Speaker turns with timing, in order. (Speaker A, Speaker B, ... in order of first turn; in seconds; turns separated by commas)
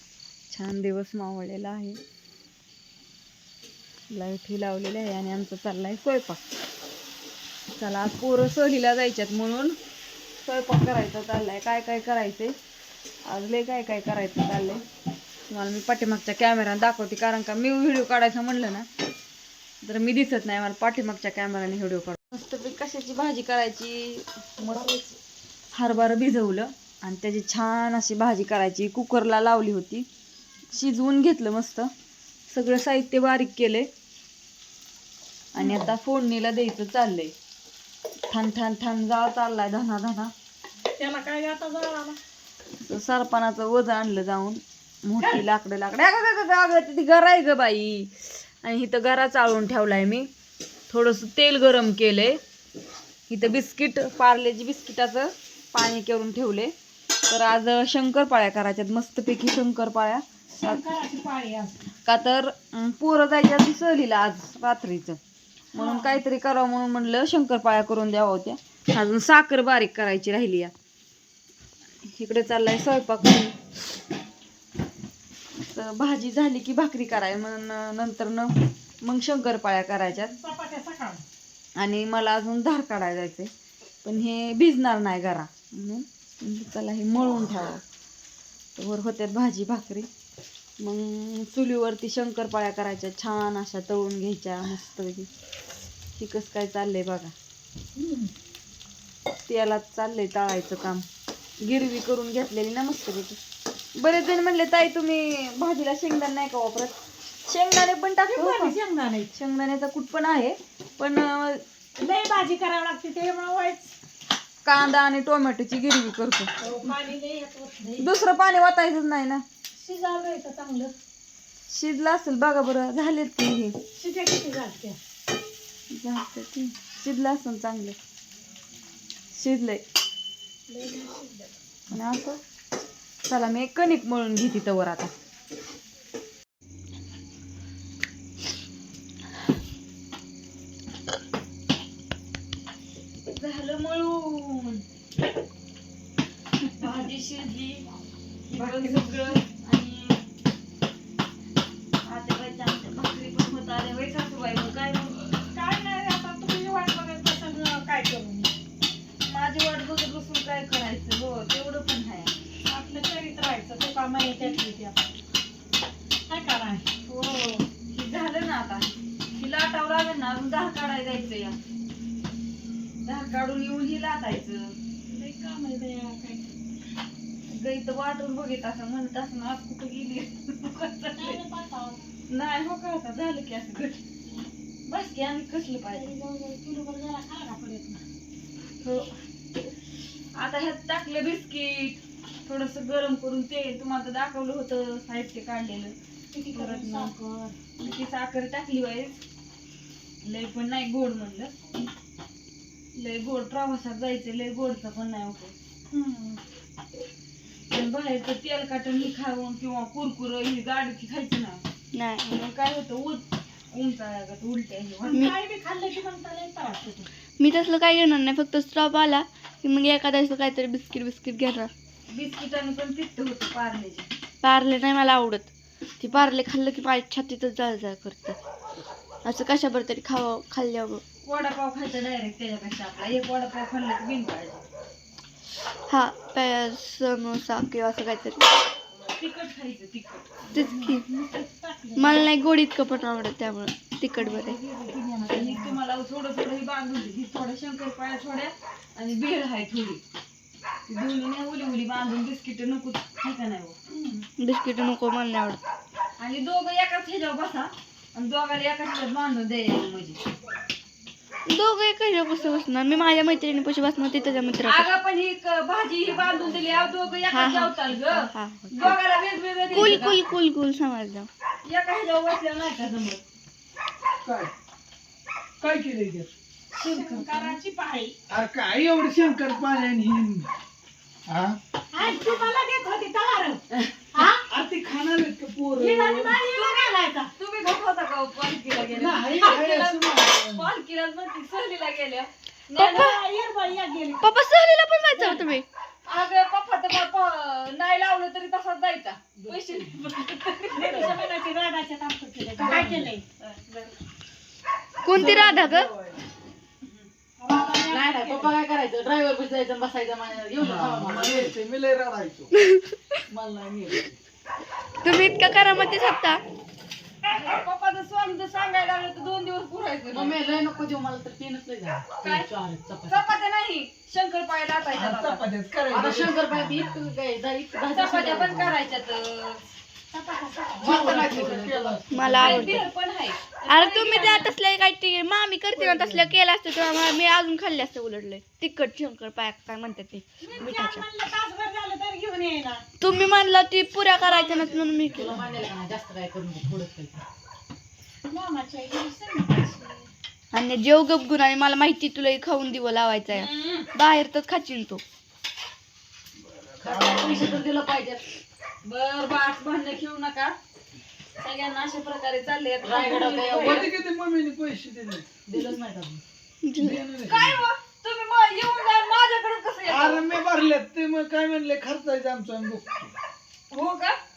Speaker A: 0.5-2.0, Speaker A: 4.1-6.4, Speaker A: 7.8-9.8, Speaker A: 10.4-12.5, Speaker A: 13.3-14.8, Speaker A: 15.5-18.9, Speaker A: 19.8-25.1, Speaker A: 25.7-30.1, Speaker A: 30.7-31.9, Speaker A: 32.5-33.9, Speaker A: 35.5-37.3, Speaker B: 35.6-35.9, Speaker A: 38.3-40.3, Speaker B: 41.0-42.2, Speaker A: 42.8-50.3, Speaker A: 50.9-52.4, Speaker A: 53.3-56.7, Speaker A: 57.3-60.8, Speaker B: 60.6-61.8, Speaker A: 62.0-65.2, Speaker B: 65.7-66.2, Speaker A: 65.7-70.7, Speaker A: 72.0-73.6, Speaker A: 75.6-80.3, Speaker B: 80.2-81.2, Speaker A: 81.8-83.5, Speaker A: 84.0-87.8, Speaker A: 88.8-90.1, Speaker A: 90.8-95.3, Speaker A: 96.2-97.3, Speaker B: 98.0-98.3, Speaker A: 99.5-101.0, Speaker A: 101.6-103.4, Speaker A: 104.0-106.9, Speaker A: 107.5-108.7, Speaker B: 108.3-109.3, Speaker A: 109.3-111.6, Speaker B: 112.0-113.9, Speaker A: 114.6-116.5, Speaker B: 116.6-118.0, Speaker A: 118.0-119.4, Speaker B: 119.8-120.9, Speaker A: 121.7-123.8, Speaker B: 123.9-125.0, Speaker A: 125.9-127.9, Speaker A: 129.3-129.8, Speaker B: 130.7-131.5, Speaker A: 131.9-132.4, Speaker A: 133.3-135.1, Speaker A: 143.3-144.8, Speaker A: 146.8-147.8, Speaker A: 148.5-150.2, Speaker B: 148.5-149.4, Speaker A: 152.1-155.5, Speaker B: 155.5-158.5, Speaker A: 159.3-162.3, Speaker B: 162.7-165.1, Speaker B: 166.3-166.8, Speaker A: 167.1-171.6, Speaker A: 173.0-174.7, Speaker B: 175.1-176.5, Speaker A: 177.5-181.4, Speaker B: 181.1-182.0, Speaker A: 182.3-184.0, Speaker A: 184.9-186.1, Speaker B: 185.9-188.0, Speaker A: 188.8-189.1, Speaker A: 190.3-195.9, Speaker B: 196.3-197.5, Speaker A: 196.5-197.1, Speaker A: 197.8-199.2, Speaker A: 200.2-201.6, Speaker A: 202.9-205.5, Speaker B: 205.9-206.4, Speaker A: 207.7-211.6, Speaker C: 211.9-212.3, Speaker A: 212.2-215.3, Speaker B: 215.0-217.1, Speaker C: 217.4-221.7, Speaker A: 222.1-224.1, Speaker C: 224.4-228.4, Speaker C: 229.2-231.0, Speaker A: 231.2-234.6, Speaker C: 235.9-238.5, Speaker A: 238.9-240.4, Speaker C: 240.5-241.1, Speaker B: 240.6-242.3, Speaker C: 242.0-244.6, Speaker A: 244.6-250.0, Speaker B: 244.8-245.7, Speaker A: 250.9-253.8, Speaker C: 254.4-255.6, Speaker A: 256.2-260.2, Speaker C: 261.4-264.9, Speaker A: 264.6-270.2, Speaker C: 267.3-269.0, Speaker C: 269.7-271.3, Speaker A: 271.6-273.2, Speaker D: 274.2-274.5, Speaker D: 275.6-276.3, Speaker A: 276.7-277.6, Speaker B: 276.8-278.1, Speaker D: 278.3-280.5, Speaker D: 281.2-281.6, Speaker B: 281.9-283.6, Speaker B: 284.1-284.4, Speaker D: 284.3-286.4, Speaker B: 285.8-287.3, Speaker A: 286.4-286.8, Speaker A: 287.4-293.1, Speaker D: 288.7-290.7, Speaker B: 292.7-294.3, Speaker C: 294.2-295.6, Speaker B: 295.1-295.5, Speaker A: 296.1-301.2, Speaker B: 300.7-303.2, Speaker E: 302.6-303.1, Speaker A: 303.4-303.9, Speaker C: 305.0-305.9, Speaker D: 305.1-306.2, Speaker B: 307.4-308.6, Speaker E: 307.8-311.6, Speaker D: 310.6-312.5, Speaker C: 312.6-313.2, Speaker E: 313.3-314.1, Speaker C: 315.0-316.4, Speaker A: 317.3-320.4, Speaker E: 320.1-323.3, Speaker A: 322.2-322.5, Speaker A: 323.1-325.4, Speaker D: 324.9-326.9, Speaker E: 325.9-328.8, Speaker A: 327.9-329.6, Speaker B: 330.1-331.2, Speaker E: 330.8-332.8, Speaker D: 330.8-332.3, Speaker C: 332.1-332.9, Speaker A: 332.4-334.5, Speaker C: 333.6-341.1, Speaker D: 335.8-336.3, Speaker B: 340.4-342.8, Speaker C: 343.0-345.6, Speaker B: 344.2-345.0, Speaker E: 345.1-347.2, Speaker B: 348.3-350.1, Speaker C: 350.5-355.0, Speaker A: 353.3-353.9, Speaker D: 356.4-357.6, Speaker E: 356.8-358.2, Speaker A: 358.8-360.6, Speaker A: 361.4-363.9, Speaker E: 362.8-363.9, Speaker D: 363.4-365.4, Speaker E: 365.5-366.2, Speaker C: 366.6-367.0, Speaker D: 366.8-367.6, Speaker A: 367.2-370.3, Speaker D: 369.8-373.1, Speaker A: 373.7-374.2